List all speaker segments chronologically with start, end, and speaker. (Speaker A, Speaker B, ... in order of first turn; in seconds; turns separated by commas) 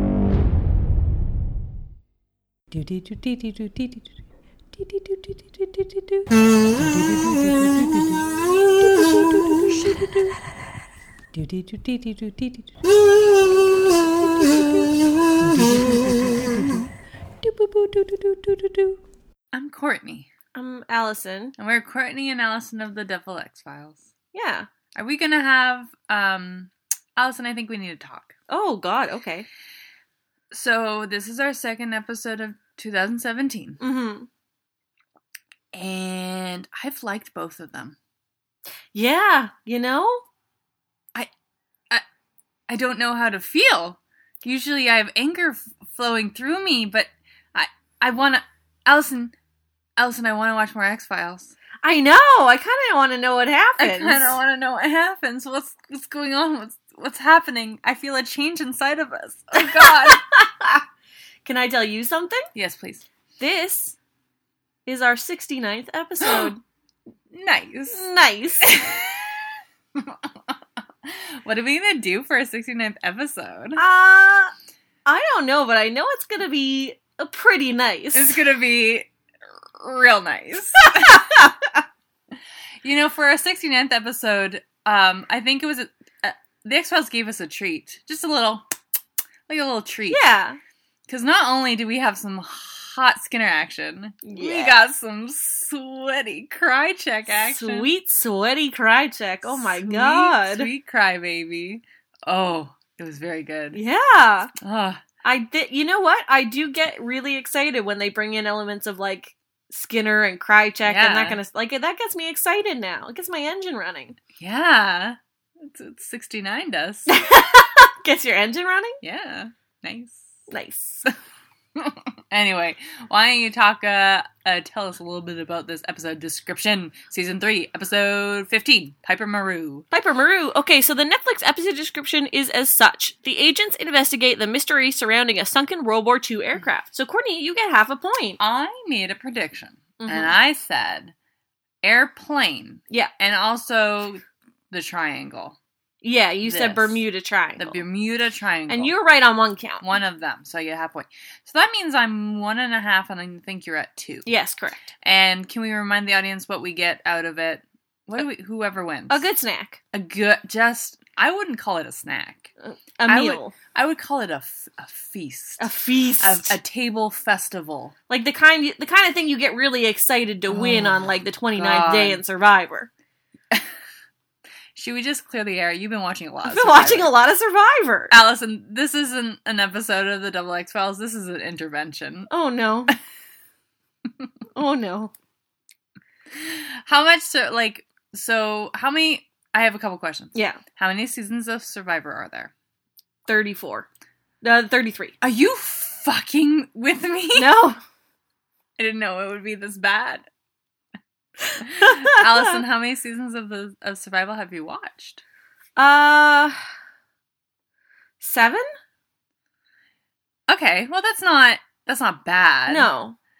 Speaker A: 2.8-3.9, Speaker A: 6.8-8.2, Speaker A: 8.9-9.6, Speaker A: 11.4-12.4, Speaker A: 15.4-16.9, Speaker A: 18.0-18.3, Speaker B: 19.5-20.3, Speaker C: 20.5-21.5, Speaker B: 21.6-24.0, Speaker C: 24.3-24.7, Speaker B: 24.9-28.4, Speaker C: 28.5-29.4, Speaker B: 30.5-33.8, Speaker C: 33.8-34.3, Speaker B: 35.7-38.0, Speaker C: 38.9-40.2, Speaker B: 42.7-49.3, Speaker B: 50.0-51.5, Speaker C: 51.8-54.4, Speaker B: 53.8-60.2, Speaker C: 59.5-60.8, Speaker C: 61.4-62.5, Speaker B: 62.5-63.0, Speaker C: 63.4-64.0, Speaker C: 64.8-66.6, Speaker B: 66.2-66.5, Speaker B: 67.3-68.1, Speaker C: 67.9-68.7, Speaker B: 68.6-70.5, Speaker B: 71.0-73.8, Speaker C: 73.8-74.5, Speaker C: 75.0-78.4, Speaker B: 78.1-79.1, Speaker B: 79.8-81.3, Speaker C: 80.8-81.8, Speaker B: 82.8-88.6, Speaker B: 89.5-90.2, Speaker C: 90.1-90.6, Speaker B: 91.1-97.9, Speaker C: 94.2-94.8, Speaker C: 97.3-100.7, Speaker B: 99.4-103.8, Speaker C: 103.7-104.5, Speaker B: 104.6-105.0, Speaker C: 105.2-114.2, Speaker B: 110.8-111.4, Speaker B: 114.3-117.1, Speaker C: 117.1-119.0, Speaker B: 119.0-120.3, Speaker C: 120.5-121.0, Speaker B: 121.8-129.8, Speaker C: 129.9-138.4, Speaker B: 138.4-141.1, Speaker C: 140.0-140.3, Speaker B: 141.8-145.6, Speaker C: 146.0-147.8, Speaker B: 146.4-147.0, Speaker B: 147.6-148.9, Speaker C: 148.7-149.8, Speaker B: 149.8-154.3, Speaker C: 154.2-154.8, Speaker B: 155.0-159.2, Speaker C: 159.1-159.8, Speaker B: 159.9-162.5, Speaker C: 162.6-163.5, Speaker B: 163.1-167.9, Speaker C: 165.6-166.5, Speaker C: 168.1-172.9, Speaker B: 170.5-172.2, Speaker B: 174.7-177.1, Speaker C: 176.4-178.1, Speaker B: 178.1-182.3, Speaker C: 182.3-182.9, Speaker C: 184.5-185.1, Speaker B: 186.3-192.5, Speaker C: 190.3-190.6, Speaker C: 193.3-193.8, Speaker C: 194.4-195.1, Speaker B: 195.2-197.5, Speaker C: 197.3-197.8, Speaker B: 198.8-200.2, Speaker B: 201.6-205.2, Speaker C: 201.8-202.5, Speaker C: 205.8-206.6, Speaker C: 208.2-208.6, Speaker B: 210.5-212.9, Speaker C: 212.7-213.2